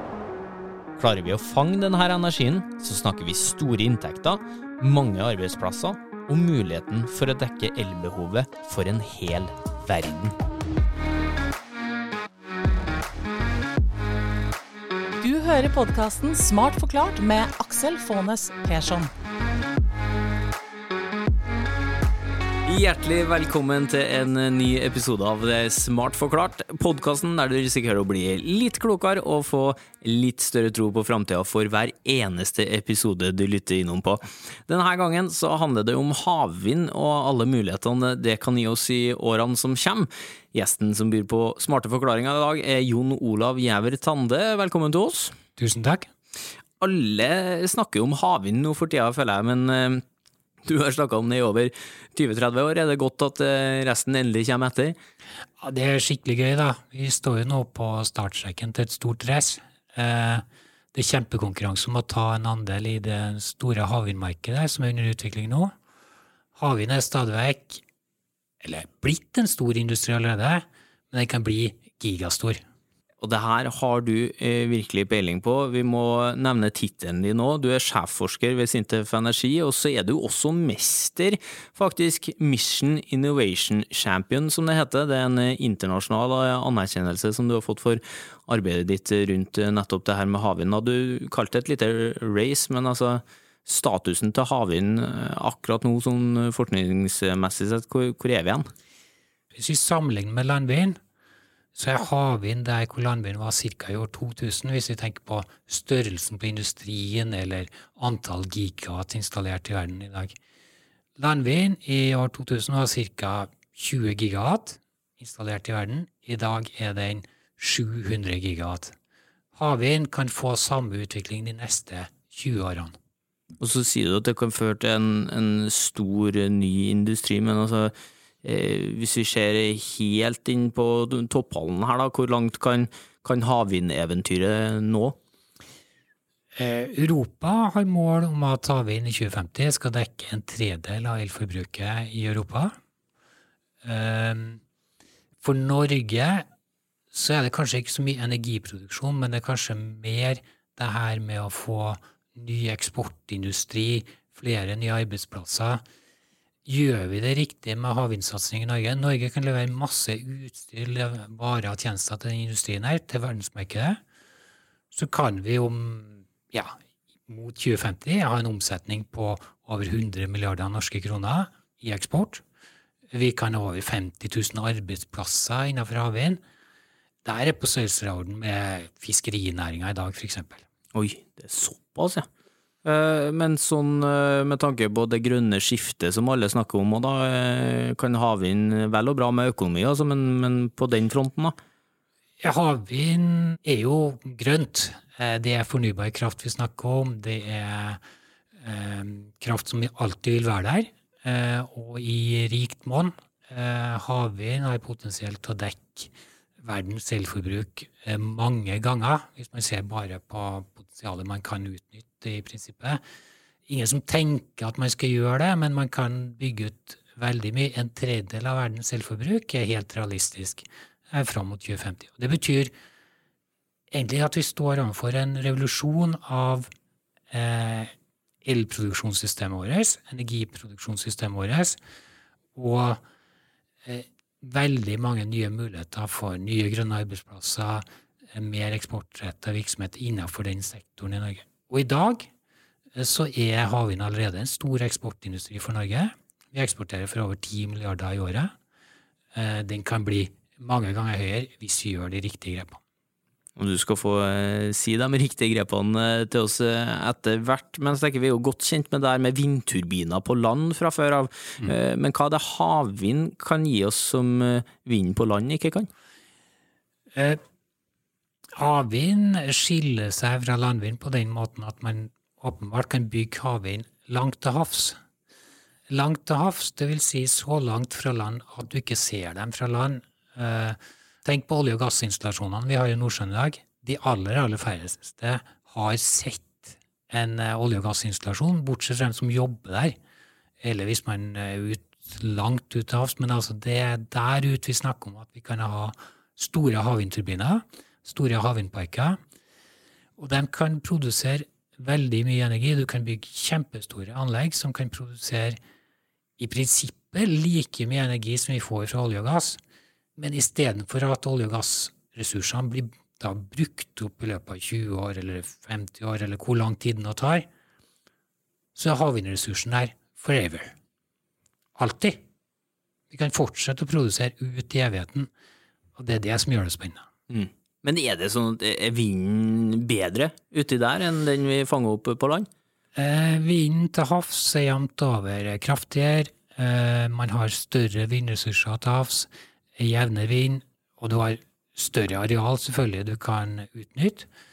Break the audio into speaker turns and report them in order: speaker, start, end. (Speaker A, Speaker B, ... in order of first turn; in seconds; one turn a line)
Speaker A: 1.0-10.3
Speaker B: 15.2-19.1
Speaker A: 22.7-45.4
Speaker C: 45.6-46.1
Speaker A: 46.8-50.0
Speaker A: 50.6-55.0
Speaker C: 55.6-65.7
Speaker C: 66.6-67.8
Speaker C: 68.6-72.6
Speaker A: 73.2-98.7
Speaker C: 99.5-101.0
Speaker C: 101.8-110.4
Speaker C: 111.2-119.0
Speaker C: 119.5-123.0
Speaker A: 123.6-135.2
Speaker C: 136.6-142.7
Speaker C: 143.8-144.6
Speaker C: 145.4-146.5
Speaker C: 147.1-155.8
Speaker C: 156.7-164.0
Speaker C: 164.9-166.8
Speaker C: 167.3-172.4
Speaker C: 173.1-176.4
Speaker C: 177.2-180.7
Speaker A: 180.9-182.3
Speaker A: 182.8-191.6
Speaker C: 192.4-198.0
Speaker C: 198.6-213.0
Speaker C: 213.7-222.7
Speaker C: 223.9-226.7
Speaker C: 227.3-227.9
Speaker C: 228.4-231.8
Speaker C: 232.6-233.0
Speaker C: 233.8-242.3
Speaker C: 242.9-248.5
Speaker C: 249.3-252.8
Speaker A: 253.6-265.9
Speaker C: 267.1-267.4
Speaker C: 268.6-275.0
Speaker C: 275.9-290.0
Speaker C: 290.6-299.2
Speaker C: 300.2-305.6
Speaker C: 306.4-309.6
Speaker C: 310.2-317.5
Speaker C: 318.8-320.7
Speaker C: 321.8-322.2
Speaker C: 323.1-325.3
Speaker C: 326.0-327.1
Speaker A: 327.3-332.5
Speaker C: 332.9-344.3